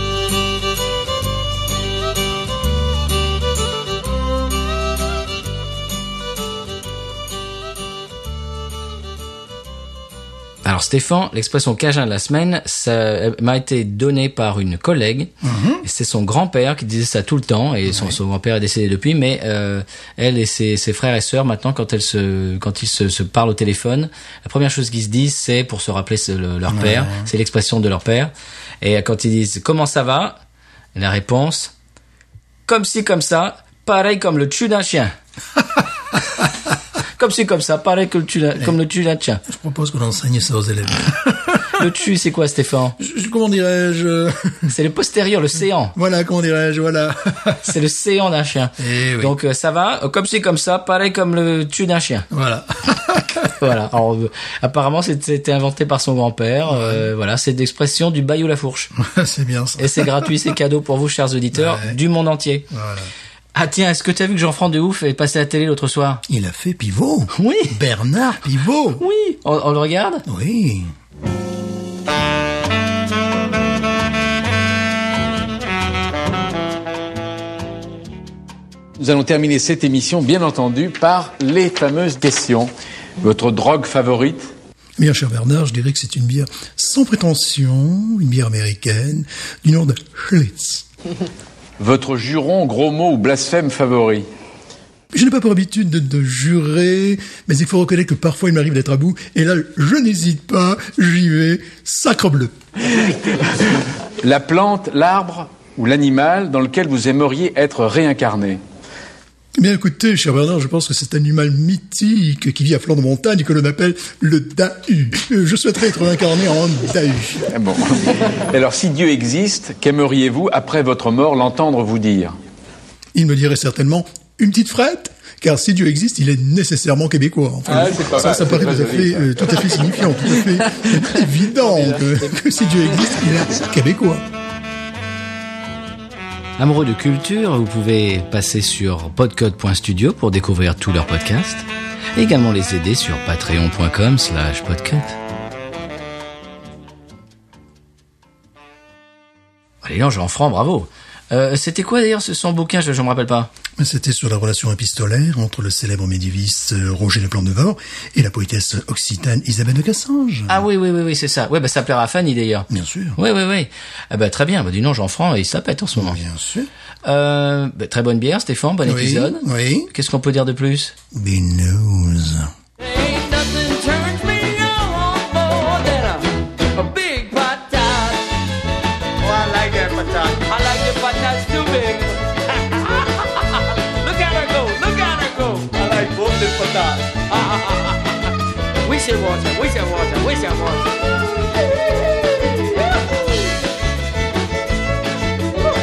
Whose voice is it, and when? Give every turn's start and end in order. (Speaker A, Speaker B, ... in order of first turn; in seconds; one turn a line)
Speaker A: 10.6-15.3
Speaker B: 15.4-15.8
Speaker A: 15.8-30.4
Speaker B: 17.9-18.2
Speaker B: 26.7-27.3
Speaker A: 30.9-31.7
Speaker A: 32.6-35.1
Speaker A: 37.2-39.4
Speaker B: 39.4-41.8
Speaker A: 41.7-43.0
Speaker B: 43.0-44.7
Speaker A: 44.7-45.9
Speaker B: 45.9-47.7
Speaker A: 47.6-52.3
Speaker B: 48.8-49.3
Speaker B: 52.3-53.5
Speaker A: 53.4-58.9
Speaker B: 56.7-57.1
Speaker B: 59.0-60.3
Speaker A: 59.8-62.7
Speaker B: 61.5-62.0
Speaker B: 62.7-63.1
Speaker A: 63.5-66.2
Speaker B: 66.3-69.0
Speaker A: 67.3-67.8
Speaker A: 69.0-70.2
Speaker B: 70.2-70.9
Speaker C: 79.0-84.5
Speaker B: 85.0-90.8
Speaker C: 91.8-94.2
Speaker B: 95.1-102.5
Speaker C: 102.9-108.6
Speaker B: 109.6-117.5
Speaker C: 117.5-122.4
Speaker B: 123.1-134.2
Speaker C: 127.7-132.1
Speaker A: 136.6-145.2
Speaker A: 149.8-153.5
Speaker B: 153.8-160.6
Speaker A: 160.5-166.2
Speaker B: 162.7-163.2
Speaker B: 165.9-166.7
Speaker A: 167.0-170.9
Speaker B: 168.8-169.9
Speaker B: 171.1-172.5
Speaker D: 172.8-178.3
Speaker D: 179.2-188.3
Speaker D: 188.8-191.1
Speaker D: 192.2-193.2